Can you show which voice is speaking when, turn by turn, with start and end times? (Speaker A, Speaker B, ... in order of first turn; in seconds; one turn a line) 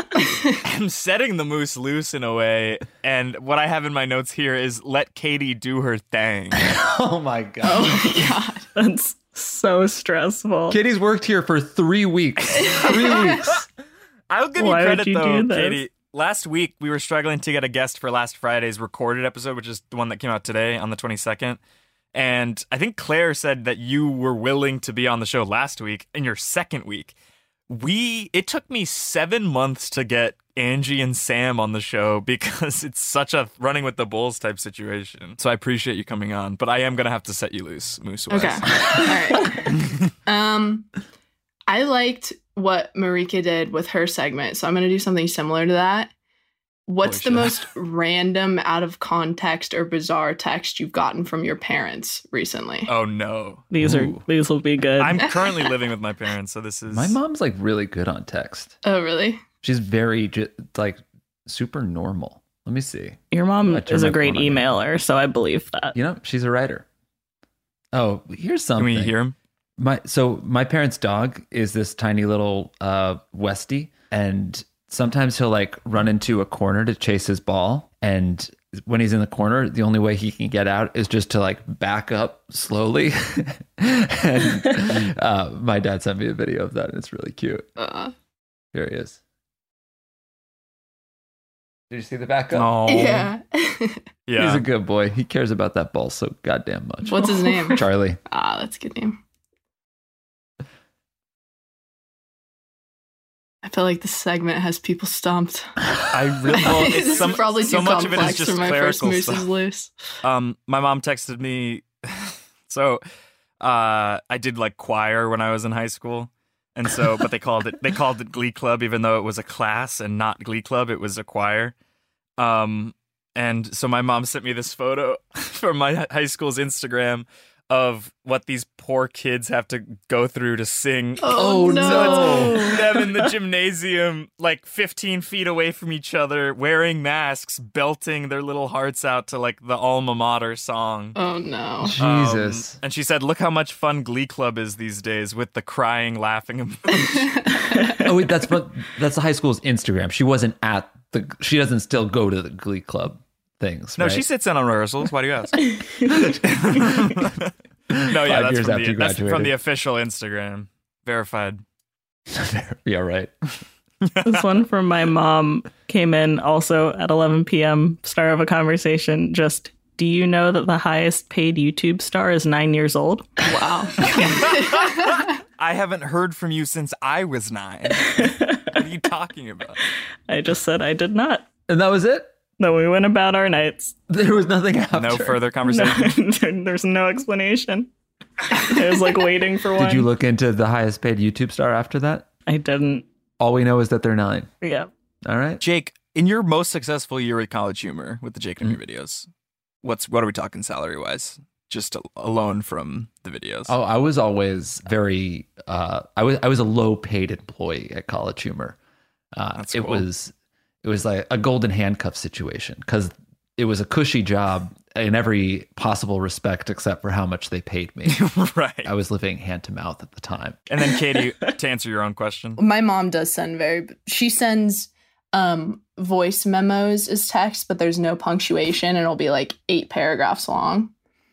Speaker A: 0.6-6.7
Speaker B: 6.5-8.3
Speaker C: 7.6-8.7
Speaker D: 8.7-10.8
Speaker B: 10.7-13.7
Speaker C: 12.6-13.5
Speaker A: 14.3-21.6
Speaker D: 14.6-15.8
Speaker A: 22.1-27.1
Speaker A: 27.7-39.2
Speaker C: 38.3-40.9
Speaker C: 41.7-46.1
Speaker C: 46.9-52.9
Speaker A: 47.0-47.5
Speaker A: 52.9-53.6
Speaker D: 53.7-55.2
Speaker B: 53.8-54.2
Speaker A: 55.0-57.2
Speaker B: 56.9-58.8
Speaker C: 58.8-59.4
Speaker B: 59.6-64.7
Speaker D: 63.3-66.0
Speaker B: 65.9-66.8
Speaker B: 67.9-69.2
Speaker A: 68.8-69.3
Speaker B: 69.8-87.7
Speaker C: 87.8-88.1
Speaker B: 88.7-89.2
Speaker B: 91.9-92.8
Speaker A: 92.5-93.3
Speaker C: 92.8-94.0
Speaker A: 94.3-94.6
Speaker B: 94.4-98.2
Speaker C: 97.1-99.2
Speaker C: 103.6-105.8
Speaker A: 106.1-109.5
Speaker C: 106.5-109.9
Speaker A: 110.2-113.0
Speaker A: 113.6-121.7
Speaker A: 122.4-141.2
Speaker C: 131.2-132.8
Speaker B: 131.3-132.8
Speaker C: 141.2-141.9
Speaker B: 141.8-142.8
Speaker A: 142.0-147.4
Speaker C: 146.9-148.1
Speaker B: 147.9-154.2
Speaker A: 154.0-161.6
Speaker D: 155.9-156.3
Speaker B: 157.9-159.5
Speaker B: 162.3-163.3
Speaker A: 164.0-164.4
Speaker D: 164.2-173.3
Speaker C: 173.4-175.3
Speaker A: 174.1-179.8
Speaker D: 178.1-178.8
Speaker D: 180.3-181.5
Speaker B: 181.7-182.3
Speaker D: 182.6-183.9
Speaker B: 184.1-185.4
Speaker A: 184.9-186.2
Speaker D: 185.7-187.9
Speaker D: 188.5-190.1
Speaker B: 189.8-192.3
Speaker D: 192.5-193.1
Speaker B: 193.4-194.5
Speaker D: 194.6-194.9
Speaker B: 195.2-195.6
Speaker A: 195.6-199.3
Speaker A: 199.8-203.7
Speaker B: 203.7-208.8
Speaker B: 209.3-218.2
Speaker A: 209.6-210.1
Speaker A: 218.1-218.9
Speaker B: 218.8-220.6
Speaker A: 220.7-222.6
Speaker C: 222.6-230.9